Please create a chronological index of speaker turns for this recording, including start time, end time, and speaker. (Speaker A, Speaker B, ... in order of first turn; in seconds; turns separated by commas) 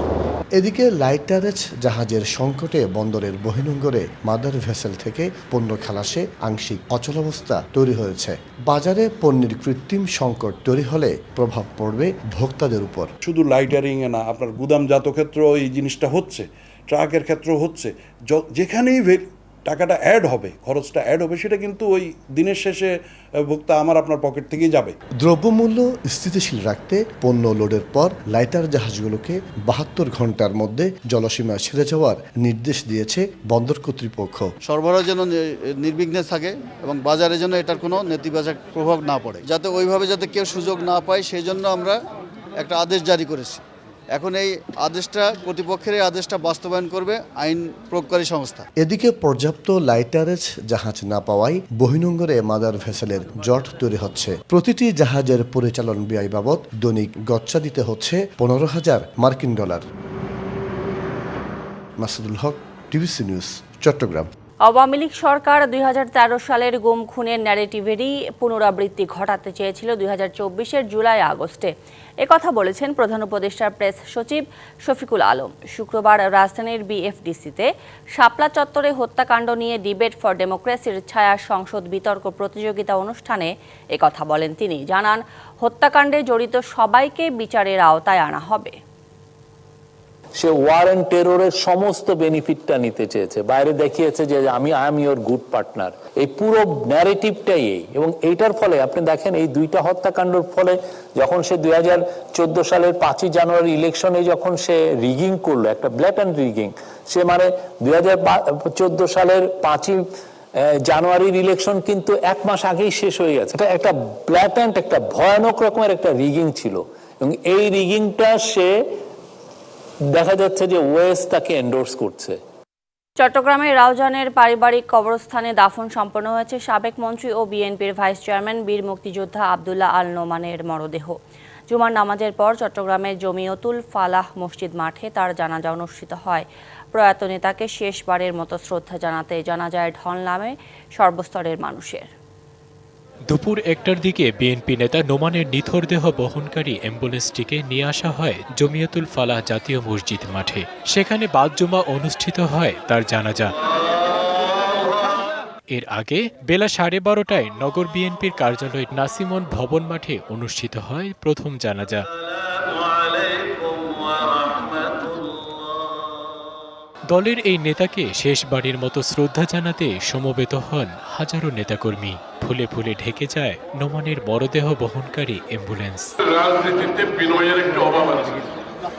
Speaker A: 0.6-13.1, Speaker B: 13.2-22.9, Speaker B: 23.4-25.0, Speaker A: 25.2-34.5, Speaker C: 34.6-42.0, Speaker C: 42.6-43.6, Speaker C: 44.1-48.6, Speaker A: 48.8-59.8, Speaker A: 62.0-64.3, Speaker D: 64.6-71.7, Speaker D: 72.2-88.8, Speaker E: 90.4-110.0, Speaker E: 110.9-118.7, Speaker E: 120.1-122.4, Speaker D: 123.2-131.2, Speaker D: 131.7-142.1, Speaker F: 143.3-153.5, Speaker F: 155.7-162.0, Speaker F: 167.1-176.1, Speaker G: 176.2-178.5